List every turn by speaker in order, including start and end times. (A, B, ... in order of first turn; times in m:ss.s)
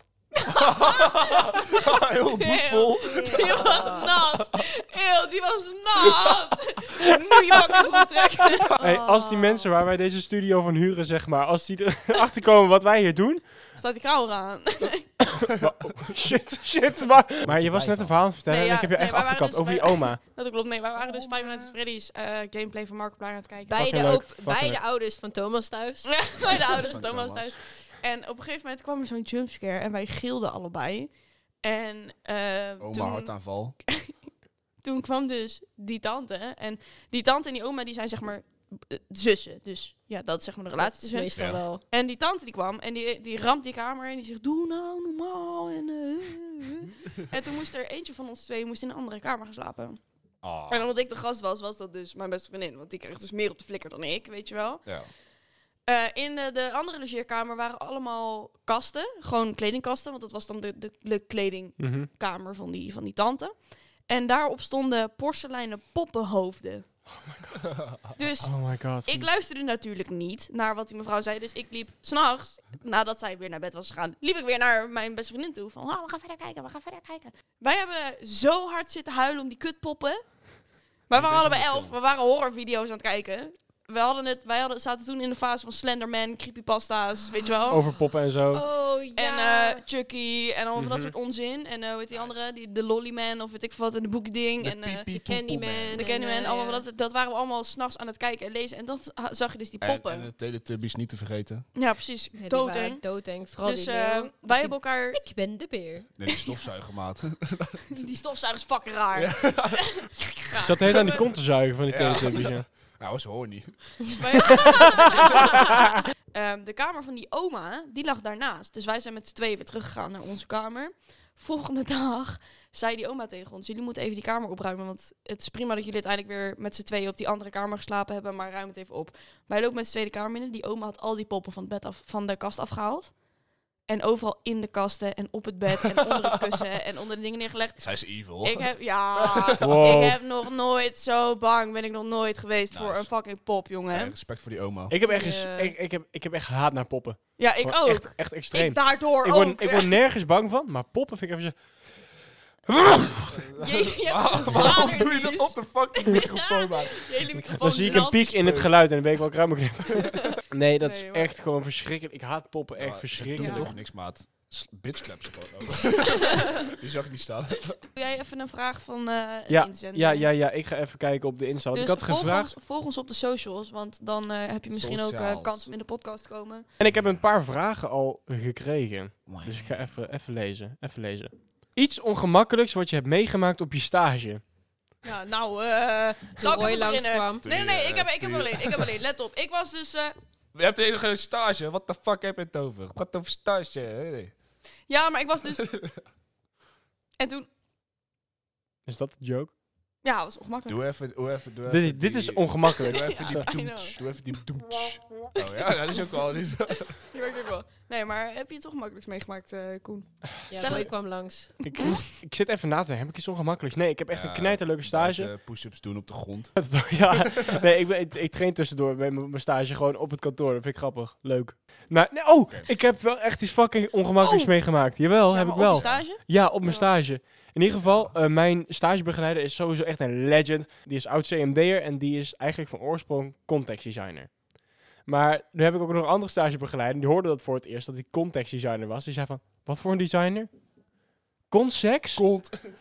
0:00.4-0:01.7 A
0:00.6-0:04.4 B
0:02.4-0:09.7 A
0:03.0-0:04.1 C
0:08.8-0:13.5 D
0:13.8-0:15.1 A
0:15.4-0:20.2 D
0:15.6-0:16.3 B
0:17.4-0:18.2 B
0:18.5-0:23.9 A
0:21.1-0:21.6 C
0:23.7-0:26.5 C
0:23.8-0:24.8 D
0:26.0-0:34.1 A
0:26.4-0:27.6 B
0:32.8-0:33.8 B
0:34.8-0:50.0 A
0:40.8-0:41.8 C
0:41.4-0:41.6 B
0:50.4-0:50.9 B
0:50.6-0:55.2 A
0:54.8-0:55.1 B
0:55.8-1:06.9 A
1:01.8-1:02.1 D
1:07.1-1:09.3 D
1:08.2-1:27.8 A
1:21.1-1:22.0 B
1:27.7-1:28.6 D
1:28.5-1:29.8 C
1:29.2-1:35.1 A
1:30.8-1:31.1 D
1:32.1-1:32.4 B
1:34.6-1:36.0 B
1:35.1-1:36.8 C
1:35.9-1:40.3 A
1:39.8-1:41.7 B
1:41.7-1:43.0 A
1:42.4-1:46.1 C
1:43.6-1:45.2 A
1:46.2-1:48.0 B
1:47.9-1:49.9 A
1:49.2-1:51.1 B
1:50.5-1:51.3 A
1:50.6-1:52.6 D
1:51.9-1:54.6 B
1:54.1-1:55.6 A
1:56.3-2:13.2 A
2:13.9-2:24.2 A
2:17.8-2:20.0 B
2:19.6-2:20.2 D
2:22.7-2:23.1 B
2:23.9-2:24.9 B
2:24.9-2:31.7 D
2:25.0-2:25.7 C
2:27.4-2:30.0 A
2:32.7-2:33.4 D
2:33.3-2:37.1 B
2:33.6-2:38.6 A
2:37.6-2:43.7 D
2:37.8-2:39.0 B
2:39.9-2:41.4 A
2:42.8-2:47.8 B
2:43.4-2:43.7 A
2:46.2-2:46.5 A
2:47.9-2:50.3 A
2:49.5-2:52.5 D
2:51.7-2:56.7 A
2:54.7-2:55.7 B
2:56.8-3:04.4 D
2:56.8-2:57.2 B
2:59.3-2:59.8 B
3:05.0-3:10.2 A
3:06.4-3:07.4 C
3:07.4-3:08.9 B
3:10.5-3:14.3 B
3:14.9-3:15.7 A
3:15.6-3:16.0 B
3:17.2-3:17.5 A
3:18.9-3:19.5 D
3:20.0-3:20.8 A
3:20.7-3:27.0 B
3:21.7-3:23.5 D
3:22.8-3:24.0 A
3:25.7-3:26.1 A
3:27.0-3:30.9 A
3:30.5-3:31.6 C
3:30.5-3:30.9 D
3:31.6-3:35.3 D
3:34.1-3:37.4 B
3:36.6-3:54.4 D
3:44.2-3:44.5 A
3:45.3-3:46.9 A
3:45.7-3:46.0 B
3:47.8-3:48.1 B
3:55.0-4:00.5 D
4:01.5-4:02.4 D
4:02.2-4:02.6 B